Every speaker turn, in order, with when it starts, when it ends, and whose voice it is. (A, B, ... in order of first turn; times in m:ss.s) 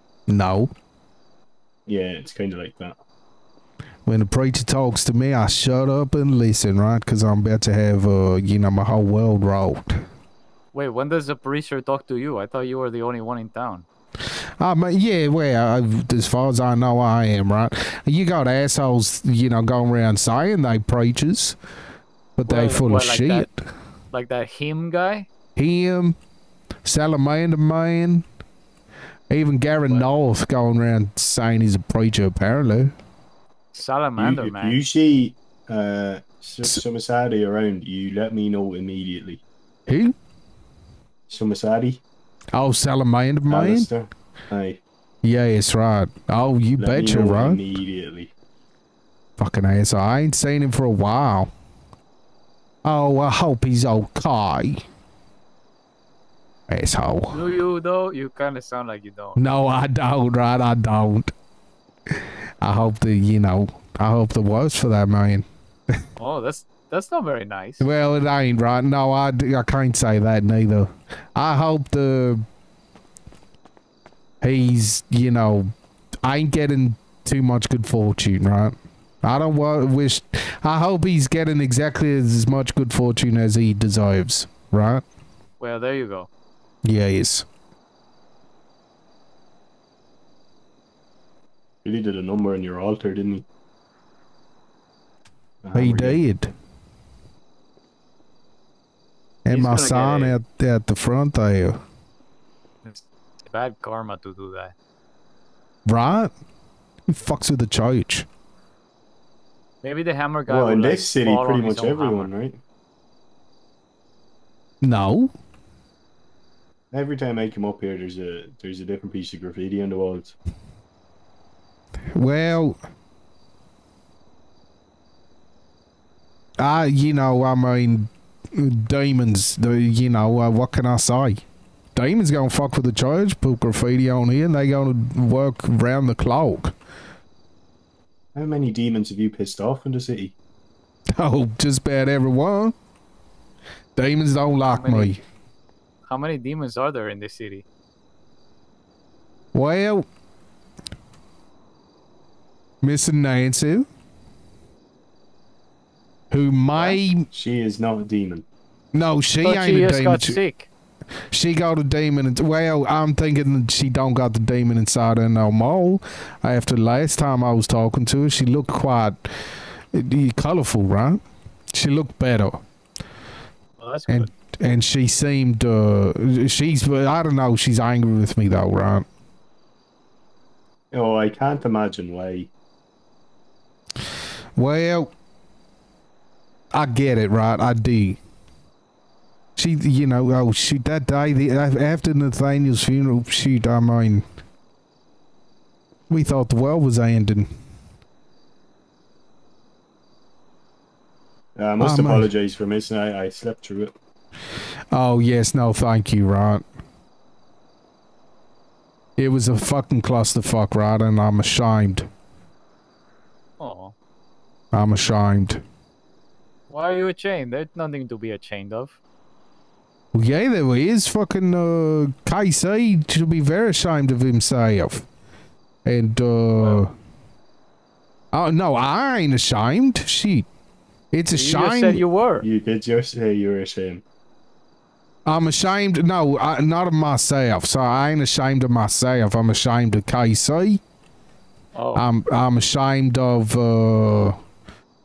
0:00.3-0:00.7 A
0:01.9-0:03.0 B
0:04.1-0:10.0 A
0:10.7-0:13.9 C
0:14.6-0:21.6 A
0:22.4-0:23.6 A
0:22.5-0:23.5 C
0:24.1-0:25.3 C
0:25.6-0:26.2 A
0:26.8-0:28.2 A
0:29.3-0:32.9 A
0:33.7-0:34.8 C
0:34.2-0:39.4 B
0:39.9-0:40.1 A
0:41.3-0:42.0 B
0:42.5-0:43.9 A
0:43.5-0:44.8 B
0:45.2-0:47.6 A
0:46.8-0:48.3 B
0:49.4-0:51.5 A
0:52.8-0:54.8 A
0:56.7-0:57.4 A
0:57.3-0:59.4 C
0:59.4-1:01.3 A
1:02.1-1:05.5 A
1:06.2-1:07.9 C
1:07.8-1:12.4 A
1:14.4-1:15.7 A
1:16.2-1:25.0 A
1:25.6-1:26.3 C
1:26.8-1:27.4 A
1:31.8-1:33.5 B
1:35.6-1:36.2 B
1:35.7-1:36.5 A
1:39.4-1:41.8 A
1:39.5-1:40.4 C
1:42.8-1:44.7 C
1:45.9-1:46.3 A
1:47.1-1:48.3 A
1:49.8-1:52.3 C
1:50.5-1:52.6 B
1:54.8-1:55.3 A
1:56.9-2:00.4 B
2:02.2-2:02.8 A
2:06.6-2:11.4 A
2:12.0-2:16.7 A
2:18.4-2:20.4 B
2:21.2-2:22.8 A
2:24.0-2:25.2 A
2:24.6-2:25.2 C
2:26.1-2:27.6 C
2:29.5-2:30.1 A
2:32.8-2:33.9 A
2:36.3-2:37.3 A
2:37.3-2:38.5 B
2:38.9-2:40.4 A
2:39.4-2:40.7 C
2:41.3-2:49.2 A
2:49.9-2:51.2 A
2:51.7-2:52.6 A
2:53.8-2:54.3 C
2:54.1-2:59.1 A
3:00.9-3:02.5 B
3:04.6-3:05.1 A
3:06.7-3:08.2 A
3:09.6-3:14.2 A
3:16.1-3:17.5 A
3:21.6-3:23.9 B
3:21.8-3:22.3 A
3:24.9-3:26.6 A
3:29.2-3:32.1 A
3:33.6-3:34.0 C
3:34.7-3:35.6 A
3:36.7-3:39.0 C
3:40.1-3:45.1 A
3:45.8-3:46.9 A
3:46.6-3:46.9 C
3:48.3-3:50.5 A
3:51.1-3:52.0 A
3:51.3-3:52.5 C
3:52.4-3:54.0 B
3:55.3-4:00.8 A
4:01.7-4:02.1 C
4:02.0-4:04.4 A